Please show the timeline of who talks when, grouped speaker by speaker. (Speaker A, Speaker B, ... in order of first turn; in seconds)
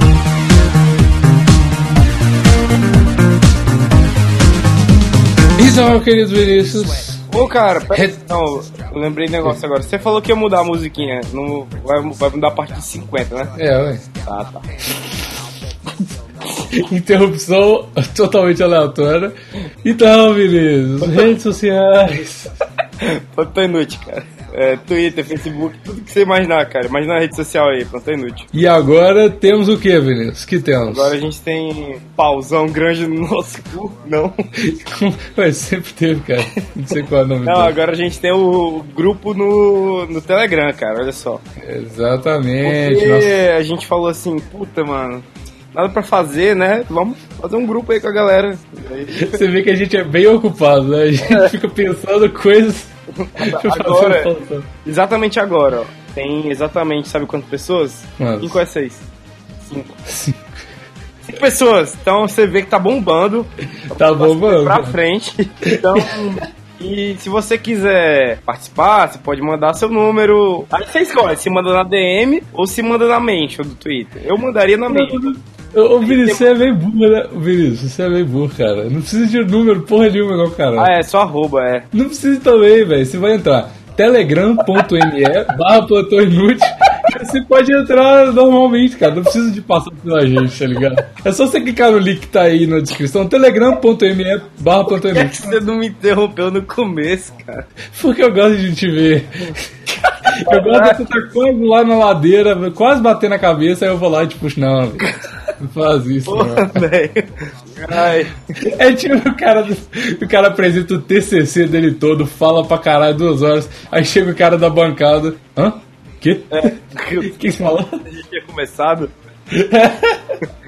Speaker A: 5.6-7.3, 13.6-14.1, 16.6-22.5, 28.5-31.2, 34.6-37.8, 41.6-43.4, 49.2-54.7, 58.2-58.6, 60.1-60.4, 63.9-65.0, 65.7-66.2, 74.9-80.9, 81.9-95.5, 97.9-106.8, 108.6-118.0, 119.5-120.4
Speaker B: 7.3-13.6, 14.3-14.7, 21.0-21.3, 23.0-28.5, 30.9-34.4, 37.5-41.4, 42.6-49.4, 51.2-51.5, 53.2-54.3, 54.9-59.1, 59.6-60.0, 61.2-75.2, 76.0-76.5, 80.8-81.9, 94.9-97.7, 100.4-101.0, 106.3-108.3, 116.5-117.4, 118.0-119.1